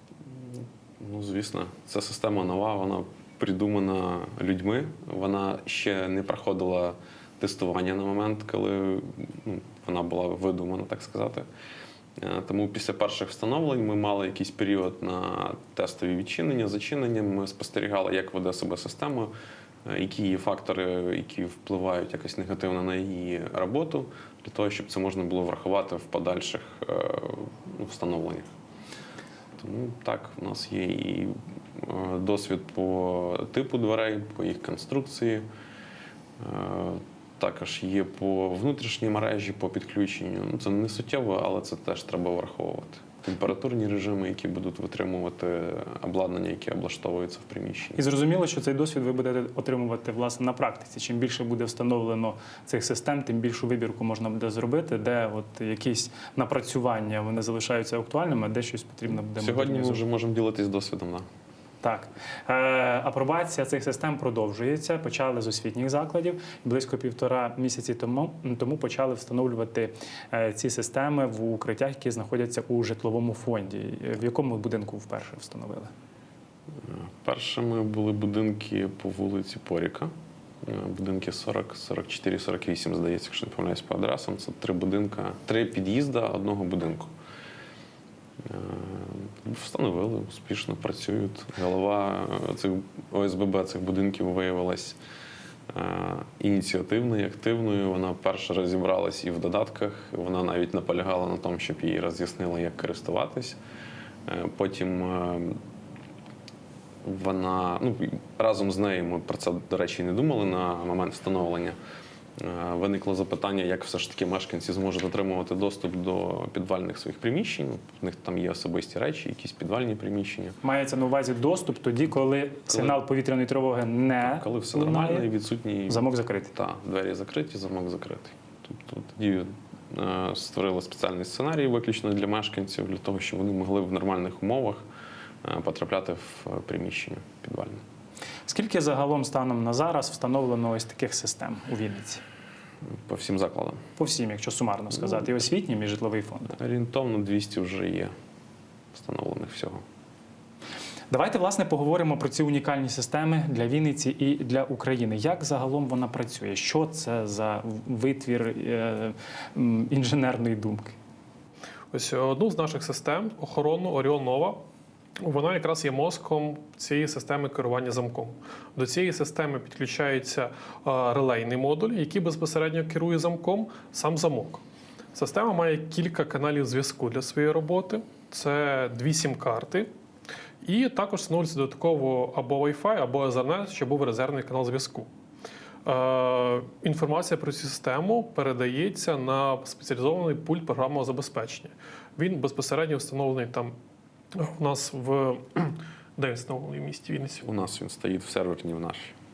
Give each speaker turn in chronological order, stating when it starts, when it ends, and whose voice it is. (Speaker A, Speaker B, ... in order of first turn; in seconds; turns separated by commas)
Speaker A: 0.3-11.5, Speaker A: 12.2-19.3, Speaker A: 19.9-28.5, Speaker A: 29.6-35.4, Speaker A: 36.4-48.0, Speaker B: 48.0-60.0, Speaker A: 59.4-61.2, Speaker B: 61.8-75.9, Speaker A: 76.8-87.1, Speaker A: 88.4-95.0, Speaker A: 95.7-103.6, Speaker A: 104.3-105.6, Speaker A: 107.0-111.8, Speaker A: 112.4-120.6, Speaker B: 120.6-125.3, Speaker A: 122.7-123.0, Speaker A: 124.2-134.8, Speaker B: 125.9-126.5, Speaker A: 135.4-137.8, Speaker B: 138.5-142.2, Speaker A: 142.8-143.8, Speaker B: 144.0-146.6, Speaker A: 146.5-148.1, Speaker A: 148.9-149.8, Speaker B: 151.1-161.0, Speaker C: 161.9-164.6, Speaker C: 165.2-174.6, Speaker C: 175.1-179.9, Speaker C: 180.6-185.1, Speaker C: 185.8-193.7, Speaker C: 194.3-197.4, Speaker A: 197.4-199.1